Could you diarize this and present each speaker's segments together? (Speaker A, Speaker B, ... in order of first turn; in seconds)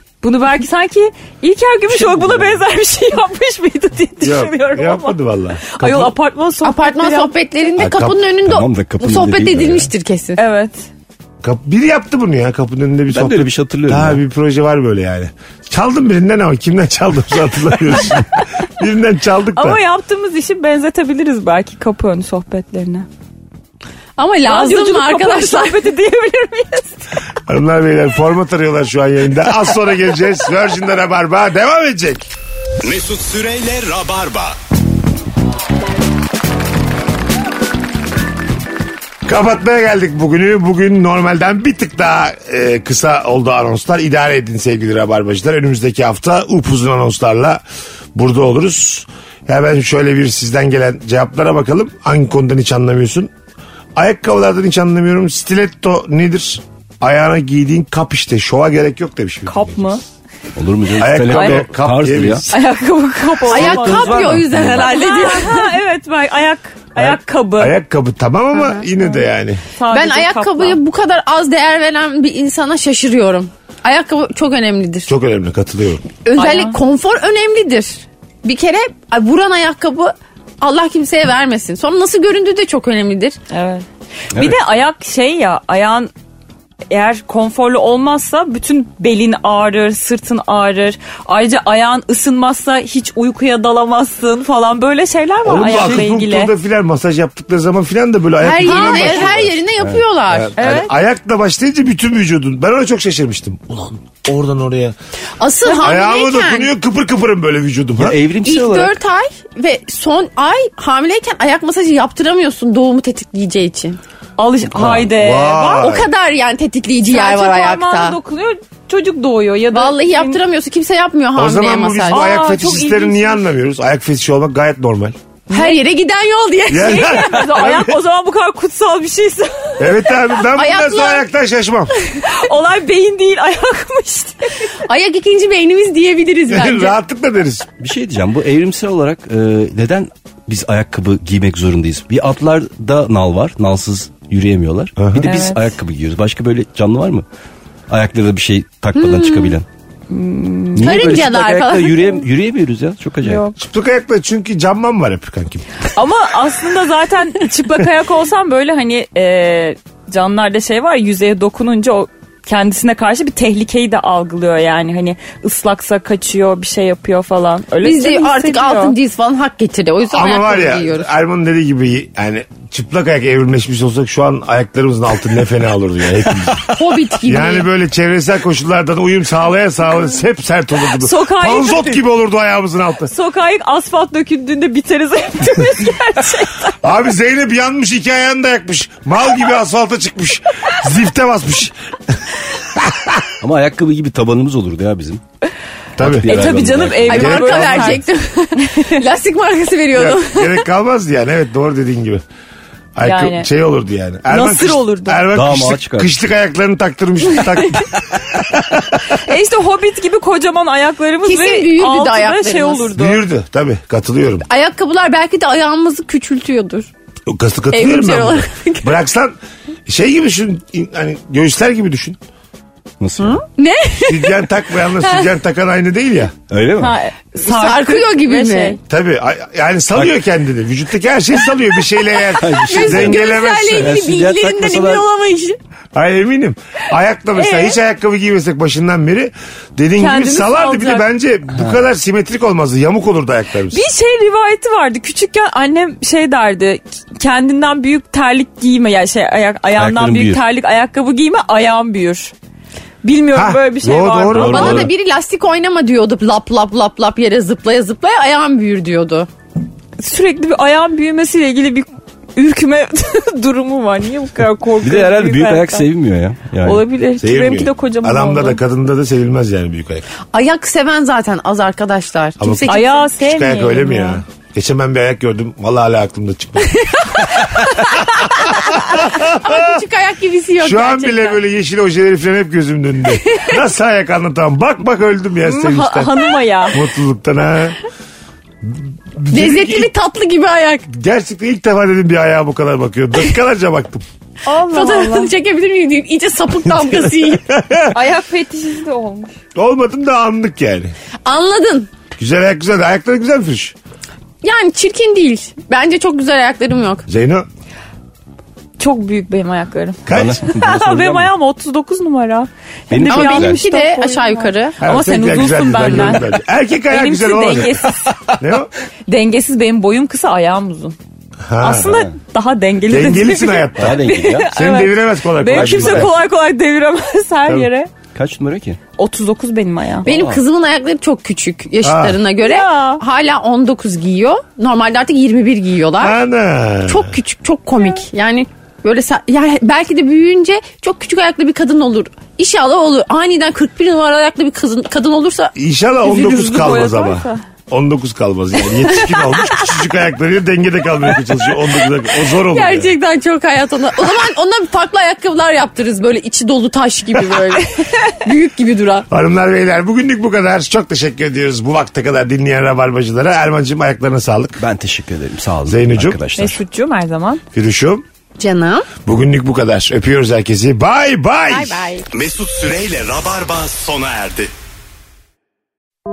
Speaker A: 0.2-7.3, 10.4-10.9, 19.6-23.1, 24.5-27.1, 59.5-60.0, 61.2-61.7, 62.5-67.7, 69.7-70.8, 76.4-76.8, 83.5-86.1, 86.9-96.5, 98.6-99.3, 100.6-100.9, 105.7-106.0, 114.4-116.0, 117.0-120.4, 122.1-123.4, 125.5-125.8, 126.7-130.1, 132.2-134.7, 145.2-145.7, 150.1-151.2, 153.2-153.6, 155.9-169.0, 180.9-182.0, 183.1-186.8, 196.3-198.0, 198.6-199.0, 203.0-203.5, 204.3-205.3, 209.0-213.2, 226.8-228.8, 237.3-237.8, 240.0-241.1, 243.7-252.3, 253.0-254.8, 260.0-265.9, 266.6-268.6, 272.7-274.2, 285.4-286.8, 294.4-295.3, 297.9-299.3, 308.8-316.4, 316.9-318.4, 319.1-321.0, 321.6-327.9, 329.0-330.1, 332.4-333.0, 346.0-347.4, 366.4-367.4
Speaker B: 2.0-2.5, 8.4-9.9, 13.1-14.2, 60.6-62.5, 63.5-65.0, 99.3-100.0, 108.0-109.0, 137.8-147.2, 147.9-149.7, 150.8-153.5, 193.4-195.2, 196.0-197.3, 205.3-206.1, 223.0-223.4, 226.5-227.0, 232.4-235.1, 249.8-250.4, 254.3-254.9, 264.8-266.9, 310.1-311.3, 312.9-313.6, 321.8-322.1, 323.8-324.5, 325.5-326.1, 328.1-328.8, 330.1-330.4, 364.6-366.6
Speaker C: 4.2-6.1, 7.8-8.3, 11.4-19.8, 27.5-32.3, 39.2-47.6, 48.1-53.3, 54.0-59.9, 61.0-62.6, 67.0-69.6, 75.1-76.1, 95.4-99.5, 100.3-105.0, 105.7-108.2, 114.7-116.1, 121.4-125.2, 126.7-127.9, 129.8-131.9, 136.5-137.7, 145.0-145.3, 153.6-155.7, 170.1-176.7, 177.2-183.1, 186.8-192.2, 192.7-193.3, 196.0-196.3, 197.1-198.0, 199.9-202.2, 202.9-209.0, 213.0-214.5, 217.3-219.3, 219.9-222.2, 224.0-226.3, 228.8-234.0, 235.9-243.8, 253.3-254.8, 267.2-270.1, 272.4-276.7, 277.2-279.8, 280.6-287.8, 288.6-289.9, 290.9-294.0, 296.8-298.0, 299.6-300.9, 302.1-303.8, 307.1-307.5, 310.1-310.4, 314.8-317.9, 318.4-318.7, 321.5-321.9, 322.9-326.1, 331.8-332.2, 336.0-337.1, 345.6-352.9, 359.1-364.6, 365.7-366.2, 367.5-368.0, 369.1-371.9
Speaker D: 6.6-10.4, 24.2-25.9, 63.5-65.8, 68.5-68.8, 69.9-75.1, 76.2-83.4, 98.4-100.5, 105.4-106.7, 108.4-114.0, 115.8-118.2, 119.7-122.3, 125.5-127.4, 130.5-131.3, 134.8-137.0, 148.9-149.6, 150.8-152.3, 167.8-171.1, 176.7-177.7, 197.1-200.6, 211.2-212.9, 214.5-216.9, 217.7-219.0, 223.2-224.4, 225.0-225.3, 227.4-228.8, 232.5-235.6, 254.4-259.3, 270.3-273.1, 276.7-281.4, 283.2-283.5, 289.3-290.9, 294.7-297.4, 301.2-301.9, 304.4-307.1, 313.1-314.8, 330.1-336.2, 336.9-345.5, 352.3-359.1, 368.4-368.9, 371.5-372.1
Speaker E: 32.8-34.6, 372.1-374.5